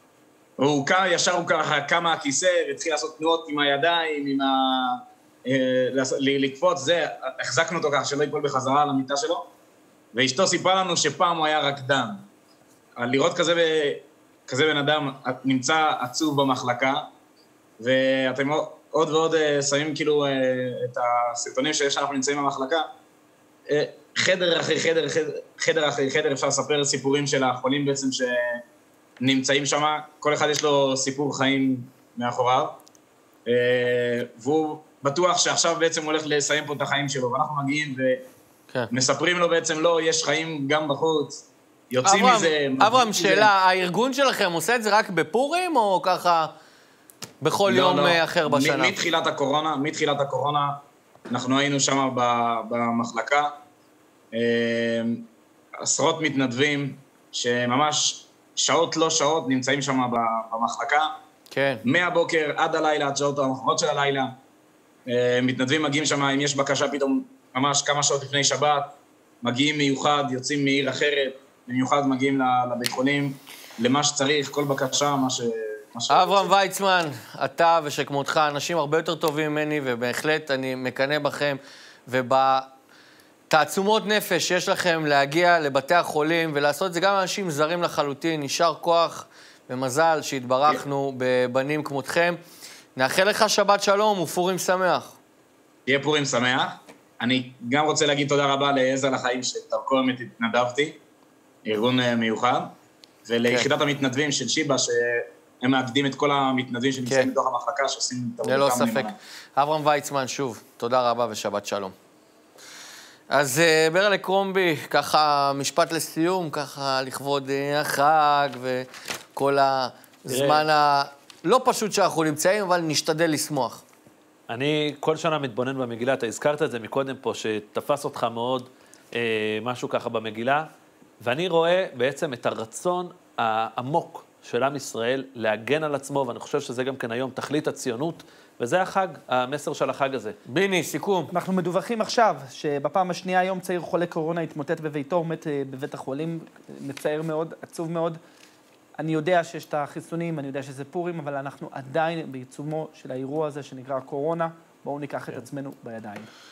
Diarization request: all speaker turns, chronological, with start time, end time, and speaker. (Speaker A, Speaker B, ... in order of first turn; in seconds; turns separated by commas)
Speaker A: 0.6-9.4, Speaker A: 10.1-12.2, Speaker A: 13.0-17.1, Speaker A: 17.8-22.9, Speaker A: 23.7-28.6, Speaker A: 29.2-32.8, Speaker A: 33.5-38.2, Speaker A: 38.9-43.5, Speaker B: 42.0-46.5, Speaker B: 47.4-49.0, Speaker A: 47.6-50.8, Speaker A: 51.3-53.5, Speaker A: 54.3-55.2, Speaker A: 55.8-61.1, Speaker B: 61.5-61.8, Speaker A: 61.8-64.3, Speaker A: 65.1-76.5, Speaker B: 76.1-82.7, Speaker B: 83.5-92.4, Speaker B: 93.0-95.2, Speaker A: 95.9-101.0, Speaker A: 101.7-102.7, Speaker A: 103.2-109.2, Speaker B: 107.1-107.3, Speaker B: 108.4-112.0, Speaker B: 113.3-123.8, Speaker C: 120.3-120.7, Speaker C: 124.5-130.7, Speaker C: 131.2-140.4, Speaker B: 140.5-141.3, Speaker D: 141.3-148.2, Speaker D: 149.0-156.3